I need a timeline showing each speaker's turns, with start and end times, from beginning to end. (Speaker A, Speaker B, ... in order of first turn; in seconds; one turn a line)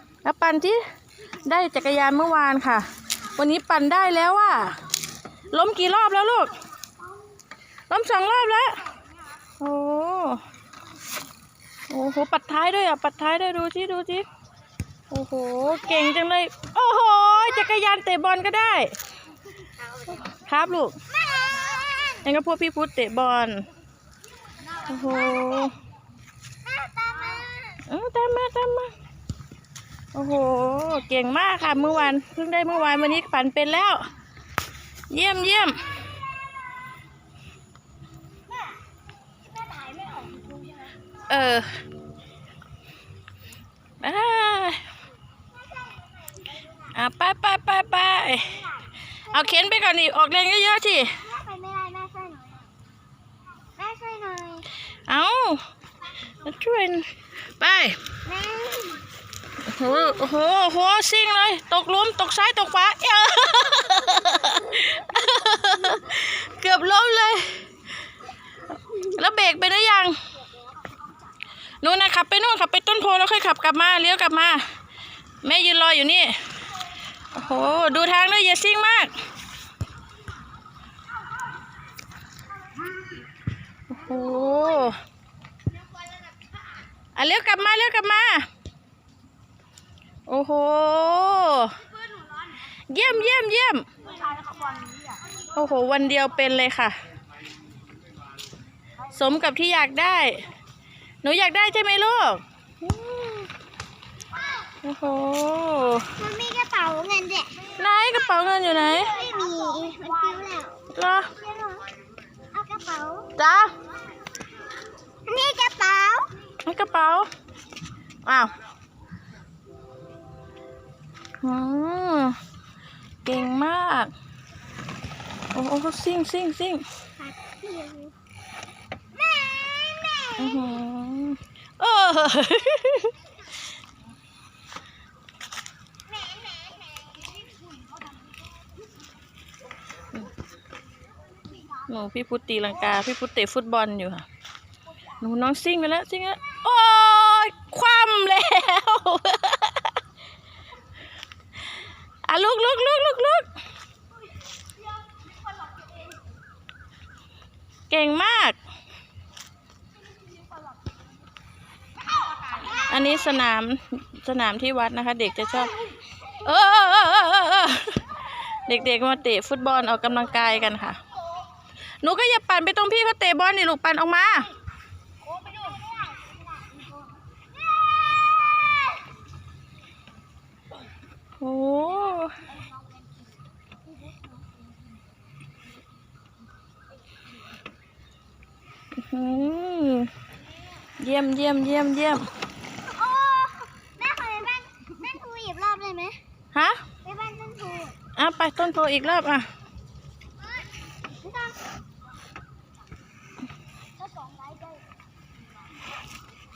Speaker A: 0.2-0.8
Speaker A: 1.4-4.8
Speaker A: 5.5-6.5
Speaker A: 7.9-8.8
Speaker A: 9.6-10.4
Speaker A: 11.9-14.2
Speaker A: 15.1-18.9
Speaker A: 20.2-21.0
Speaker B: 21.1-22.3
Speaker A: 22.2-23.7
Speaker A: 24.9-25.8
Speaker B: 26.6-27.8
Speaker A: 27.9-28.9
Speaker A: 30.1-34.1
Speaker A: 35.1-35.9
Speaker B: 39.8-40.5
Speaker A: 41.3-41.7
Speaker A: 44.0-44.8
Speaker B: 45.6-46.9
Speaker A: 46.9-48.6
Speaker B: 48.5-49.6
Speaker A: 49.3-51.2
Speaker B: 51.1-52.7
Speaker B: 53.8-54.7
Speaker A: 55.1-55.6
Speaker A: 56.4-58.0
Speaker B: 58.2-59.0
Speaker A: 59.6-67.6
Speaker A: 68.9-70.2
Speaker A: 71.8-74.7
Speaker A: 75.4-76.4
Speaker A: 77.3-79.1
Speaker A: 83.9-85.0
Speaker A: 87.1-88.5
Speaker A: 90.3-91.8
Speaker A: 92.9-93.9
Speaker A: 95.5-97.0
Speaker A: 99.1-100.5
Speaker A: 101.2-102.4
Speaker A: 103.0-103.4
Speaker A: 104.8-106.1
Speaker B: 106.2-107.7
Speaker A: 107.8-109.1
Speaker B: 108.9-110.8
Speaker A: 110.9-111.3
Speaker B: 111.3-111.8
Speaker B: 112.5-113.3
Speaker A: 113.4-113.7
Speaker B: 115.2-116.3
Speaker A: 116.6-117.3
Speaker A: 118.2-118.5
Speaker A: 121.4-122.4
Speaker A: 123.2-124.1
Speaker A: 125.5-126.8
Speaker B: 127.2-128.1
Speaker B: 129.1-130.8
Speaker A: 130.4-133.1
Speaker B: 136.2-137.2
Speaker A: 141.8-144.2
Speaker A: 145.2-149.9
Speaker A: 152.2-153.5
Speaker A: 157.9-158.6
Speaker A: 162.7-165.7
Speaker A: 166.4-168.0
Speaker A: 168.7-171.0
Speaker A: 172.0-174.5
Speaker B: 178.2-178.7
Speaker A: 181.4-182.4
Speaker A: 188.9-190.1
Speaker A: 191.0-192.3
Speaker B: 192.9-196.2
Speaker A: 196.5-196.8
Speaker B: 197.0-197.9
Speaker A: 198.2-199.5
Speaker B: 201.2-201.6
Speaker B: 204.1-204.7